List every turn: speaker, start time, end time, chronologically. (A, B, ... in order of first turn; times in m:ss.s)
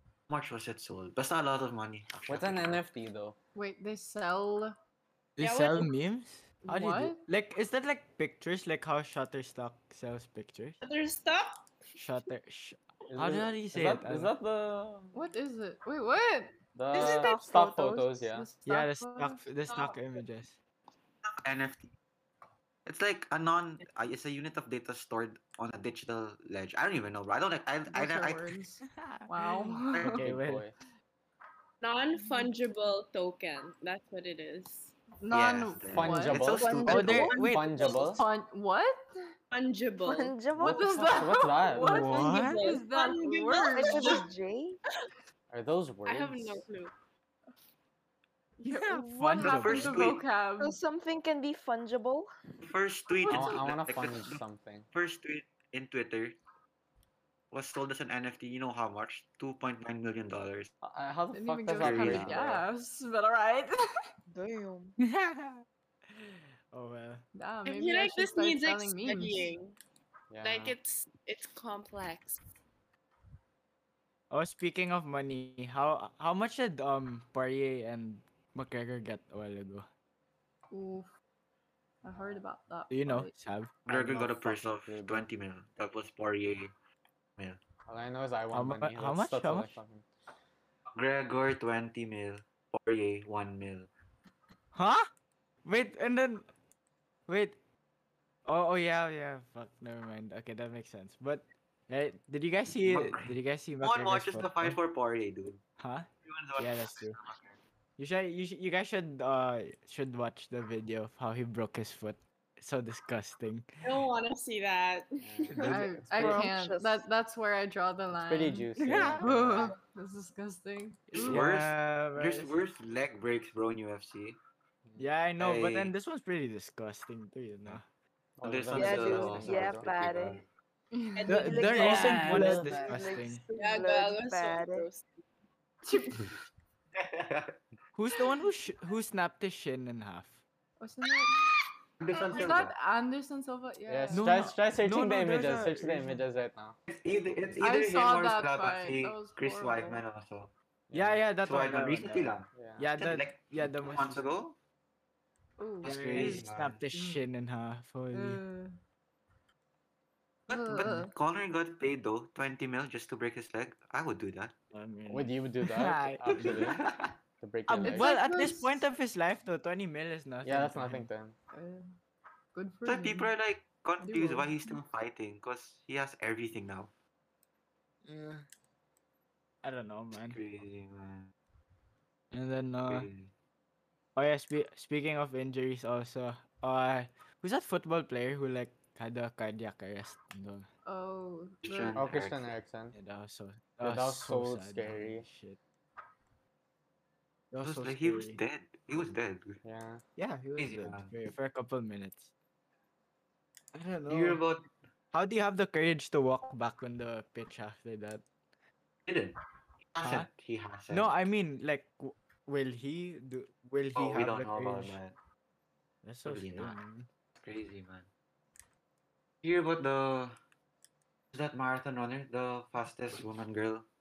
0:00.3-0:02.8 A
0:02.3-0:03.4 B
0:03.6-0:04.7 C
0:05.4-0:10.8 D
0:05.4-0:05.9 E
0:06.6-0:07.2 C
0:10.8-0:11.7 E
0:12.0-0:14.3 D
0:13.1-0:15.2 B
0:15.1-0:17.4 C
0:16.8-0:18.5 B
0:16.9-0:18.1 F
0:18.3-0:19.5 C
0:18.7-0:20.6 D
0:19.7-0:20.2 E
0:21.4-0:21.9 A
0:22.8-0:28.5 A
0:27.9-0:30.2 C
0:28.9-0:30.7 D
0:30.0-0:30.2 A
0:30.2-0:30.7 B
0:31.8-0:34.9 E
0:32.2-0:32.5 C
0:35.2-0:39.1 C
0:35.3-0:37.3 A
0:35.9-0:38.2 B
0:36.5-0:37.5 E
0:36.9-0:38.0 D
0:39.5-0:40.4 E
0:40.0-0:41.2 F
0:40.6-0:44.2 C
0:40.6-0:41.9 B
0:41.8-0:42.8 D
0:41.9-0:44.2 E
0:43.7-0:44.8 F
0:45.5-0:46.6 B
0:46.1-0:46.9 E
0:48.6-0:50.8 C
0:48.6-0:50.1 D
0:49.4-0:50.2 A
0:50.6-0:52.3 F
0:52.6-0:56.4 A
0:53.3-0:53.6 C
0:53.3-0:54.9 B
0:57.5-1:00.7 A
1:00.8-1:02.6 B
1:01.3-1:03.8 C
1:01.8-1:02.4 A
1:04.3-1:05.0 F
1:05.0-1:07.2 D
1:07.4-1:09.5 C
1:07.7-1:09.8 E
1:10.3-1:10.8 B
1:10.4-1:12.4 E
1:14.3-1:19.9 D
1:20.7-1:21.1 C
1:22.0-1:23.3 C
1:22.1-1:22.4 B
1:22.9-1:24.4 D
1:23.9-1:26.7 A
1:24.0-1:25.3 B
1:27.9-1:30.0 B
1:28.5-1:29.8 D
1:31.0-1:33.9 A
1:34.7-1:35.1 D
1:35.6-1:36.5 D
1:37.3-1:37.6 D
1:38.5-1:44.8 D
1:42.8-1:45.6 A
1:45.8-1:47.2 D
1:46.2-1:47.6 A
1:48.0-1:54.0 D
1:53.8-1:55.7 E
1:55.2-1:56.4 B
1:55.6-1:55.8 D
1:55.6-2:01.4 C
1:56.2-1:57.0 F
1:58.2-1:59.7 B
1:58.8-1:59.3 D
2:01.1-2:04.4 A
2:01.2-2:02.6 D
2:05.0-2:07.8 D
2:05.4-2:05.9 A
2:08.4-2:10.0 B
2:08.4-2:10.5 A
2:08.8-2:10.4 F
2:10.9-2:11.9 C
2:11.2-2:13.0 E
2:11.3-2:14.9 F
2:11.3-2:13.4 D
2:12.0-2:12.4 A
2:13.5-2:15.1 E
2:15.8-2:16.4 C
2:17.0-2:17.6 A
2:18.0-2:20.4 D
2:20.8-2:21.4 C
2:22.0-2:22.7 A
2:22.2-2:24.4 C
2:23.9-2:26.8 B
2:24.1-2:26.2 D
2:26.9-2:30.5 A
2:27.6-2:30.0 C
2:30.9-2:31.2 B
2:30.9-2:34.3 D
2:31.4-2:34.6 A
2:32.5-2:32.9 B
2:35.6-2:37.2 C
2:35.8-2:36.8 A
2:35.8-2:38.4 D
2:38.1-2:38.8 C
2:40.5-2:41.1 C
2:40.5-2:44.5 A
2:44.7-2:46.6 D
2:45.1-2:46.8 B
2:46.4-2:47.0 A
2:47.4-2:48.1 B
2:47.7-2:51.1 D
2:47.8-2:48.9 C
2:50.4-2:51.4 B
2:51.5-2:51.8 C
2:52.5-2:53.3 C
2:52.8-2:56.9 A
2:54.0-2:54.8 C
2:58.0-2:58.5 D
2:59.6-3:00.4 D
3:00.3-3:01.3 A
3:02.3-3:03.1 D
3:02.8-3:03.3 A
3:04.2-3:10.7 D
3:10.8-3:12.0 C
3:11.6-3:12.6 A
3:11.9-3:13.0 B
3:12.9-3:15.6 D
3:13.8-3:15.2 B
3:17.5-3:18.4 D
3:17.6-3:19.6 A
3:19.6-3:20.0 B
3:20.2-3:22.3 D
3:20.6-3:21.1 A
3:23.7-3:24.4 D
3:24.1-3:24.7 A
3:25.1-3:28.2 D
3:29.1-3:29.4 A
3:29.9-3:31.1 A
3:30.0-3:30.3 D
3:30.9-3:35.0 D
3:34.0-3:35.2 A
3:36.0-3:37.1 D
3:36.2-3:36.8 A
3:37.4-3:38.1 A
3:39.4-3:40.4 A
3:41.3-3:43.8 A